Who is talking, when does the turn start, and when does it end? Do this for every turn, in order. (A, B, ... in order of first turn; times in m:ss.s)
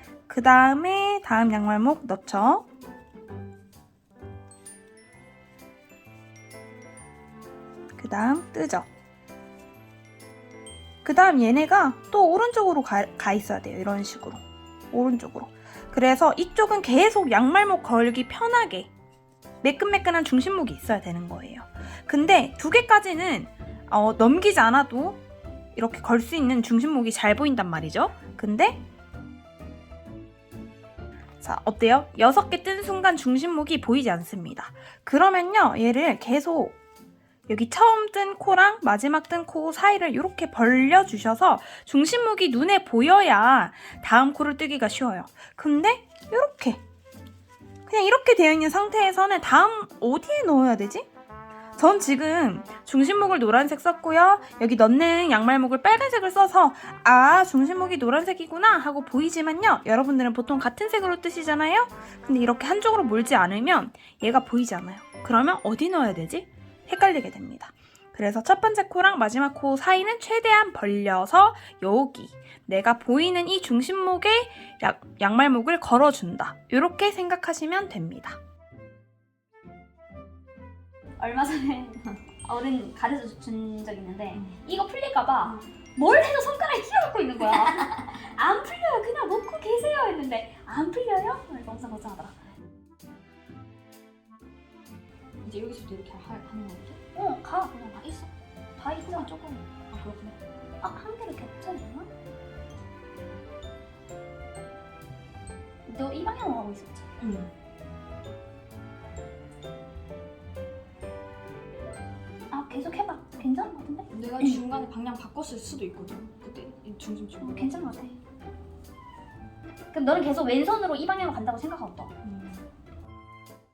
0:00.3-0:02.6 A
0:08.0-0:08.9 A
0:11.0-0:18.9 A
0:19.6-0:25.2 A
0:25.7-0:28.8 A
0:31.4-0:36.7 A
0:37.5-0:46.8 A
0:47.9-0:51.0 A
0:51.8-1:18.4 A
1:21.2-1:32.4 B
1:35.4-1:37.0 C
1:37.1-1:37.9 B
1:37.8-1:38.3 C
1:38.8-1:39.3 B
1:39.0-1:40.4 C
1:40.8-1:42.1 B
1:45.8-1:47.1 B
1:47.2-1:47.5 C
1:52.5-1:54.6 B
1:54.1-1:57.9 C
1:57.4-1:58.1 B
1:59.9-2:02.1 B
2:02.2-2:02.6 C